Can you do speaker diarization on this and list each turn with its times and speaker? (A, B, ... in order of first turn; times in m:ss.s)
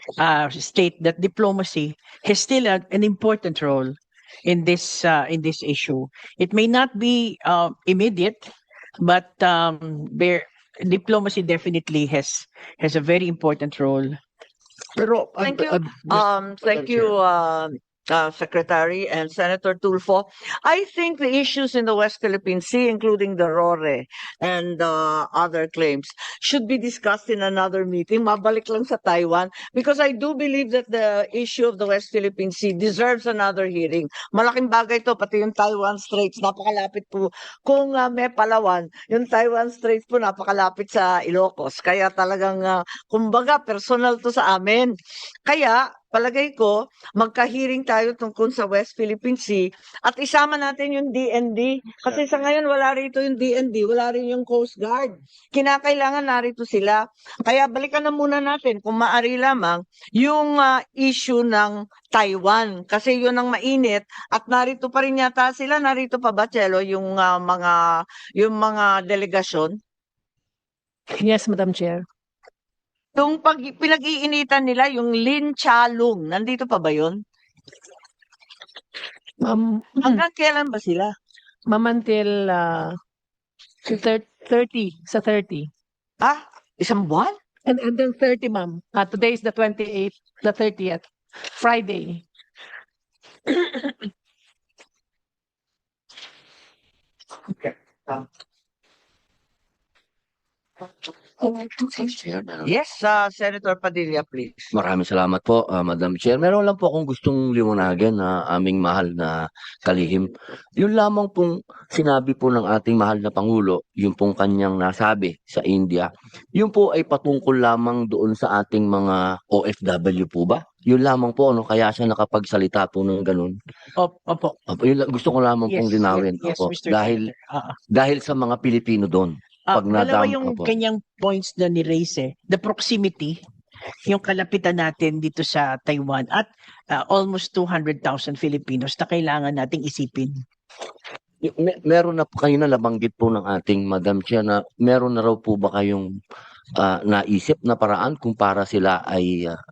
0:00.2-0:14.2 A
0:15.0-0:17.1 B
0:15.4-0:45.0 C
0:45.5-1:07.8 C
1:08.4-1:09.8 C
1:11.2-1:12.0 D
1:13.2-1:17.2 C
1:19.4-1:20.2 D
1:20.0-1:21.1 C
1:21.7-1:23.0 D
1:23.9-1:25.7 D
1:26.2-1:27.4 C
1:27.7-1:31.0 D
1:31.6-1:32.2 D
1:33.5-1:34.0 D
1:41.4-1:42.6 E
1:42.7-1:44.7 C
1:44.7-2:03.6 E
2:04.0-2:04.6 A
2:04.7-2:07.2 E
2:05.7-2:07.8 A
2:07.9-2:10.7 E
2:09.7-2:13.4 A
2:14.1-2:20.4 A
2:21.4-2:26.1 E
2:26.8-2:29.6 E